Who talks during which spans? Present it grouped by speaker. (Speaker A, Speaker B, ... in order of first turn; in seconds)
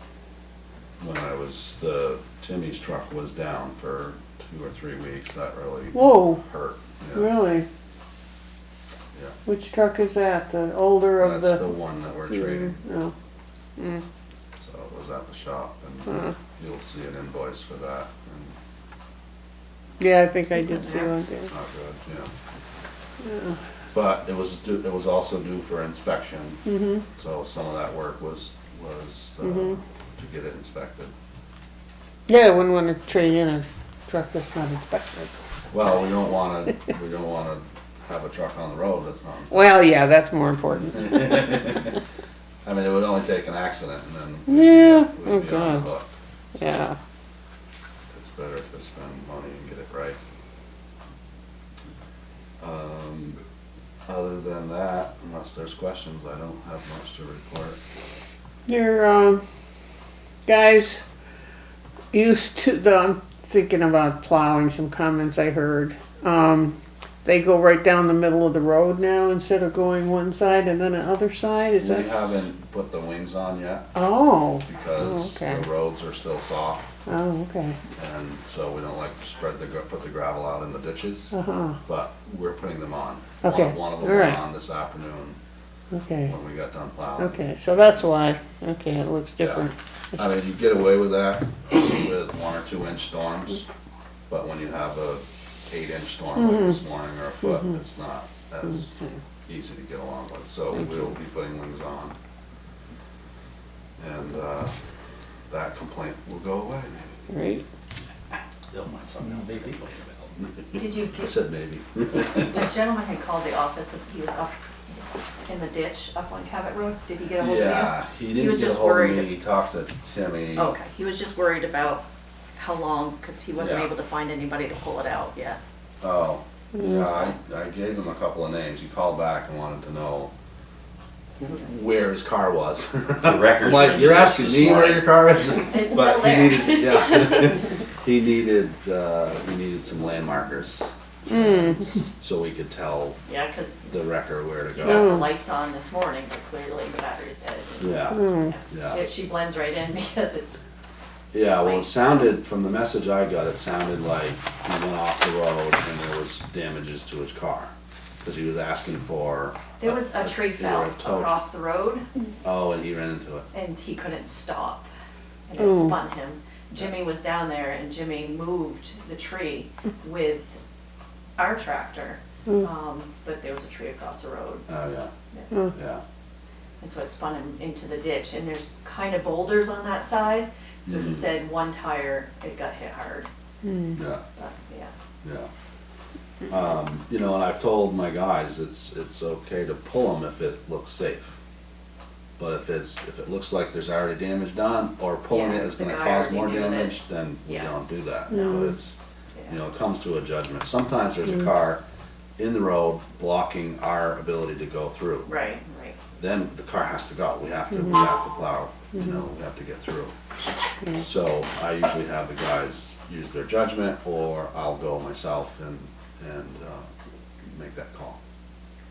Speaker A: 1.0-7.4, 11.2-12.8, 14.6-18.6, 21.5-22.3, 23.9-31.1, 35.7-39.7, 41.0-42.0, 42.6-46.1, 48.1-50.2, 52.6-53.4, 54.1-57.8, 71.8-73.9, 74.6-76.9, 78.0-85.4, 86.2-88.1, 89.4-93.7, 94.3-102.1, 104.0-104.7, 105.5-107.2, 110.7-112.6, 117.4-120.7, 123.5-123.9, 126.0-130.3, 131.4-143.2, 143.9-145.2, 147.8-149.0, 151.3-161.4, 162.4-163.4, 174.7-175.1, 175.7-176.0, 180.8-181.2, 183.9-184.2, 185.2-185.5, 186.5-191.4, 192.4-198.9, 199.5-201.8, 202.4-205.3, 206.2-210.1, 210.9-216.9, 217.4-218.2
Speaker B: 5.9-6.4, 7.1-7.7, 9.4-11.7, 12.3-13.1, 13.8-14.0, 16.1-16.3, 20.0-21.5, 23.2-23.6, 26.6-27.0, 29.4-29.8, 32.3-35.3, 39.5-41.7, 44.5-45.8, 46.5-47.0, 58.7-59.4, 60.5-61.0, 62.1-72.4, 73.9-75.6, 77.1-77.8, 81.3-81.8, 83.4-84.4, 85.9-86.3, 87.2-90.3, 96.3-96.8, 107.3-107.6, 126.7-127.1, 141.3-141.8, 144.8-145.2, 148.1-148.5, 165.6-165.9, 183.6-184.0, 198.3-198.7
Speaker C: 20.5-21.1, 110.7-111.3, 112.3-114.5, 115.4-119.3, 120.5-122.0, 122.5-125.6, 135.6-137.7, 143.3-143.9, 144.8-150.6, 151.6-151.9, 159.8-162.1, 163.5-164.9, 165.5-170.6, 171.4-174.6, 176.8-183.3, 184.3-184.9, 195.3-197.7, 205.2-206.0
Speaker D: 108.3-110.3, 133.2-135.4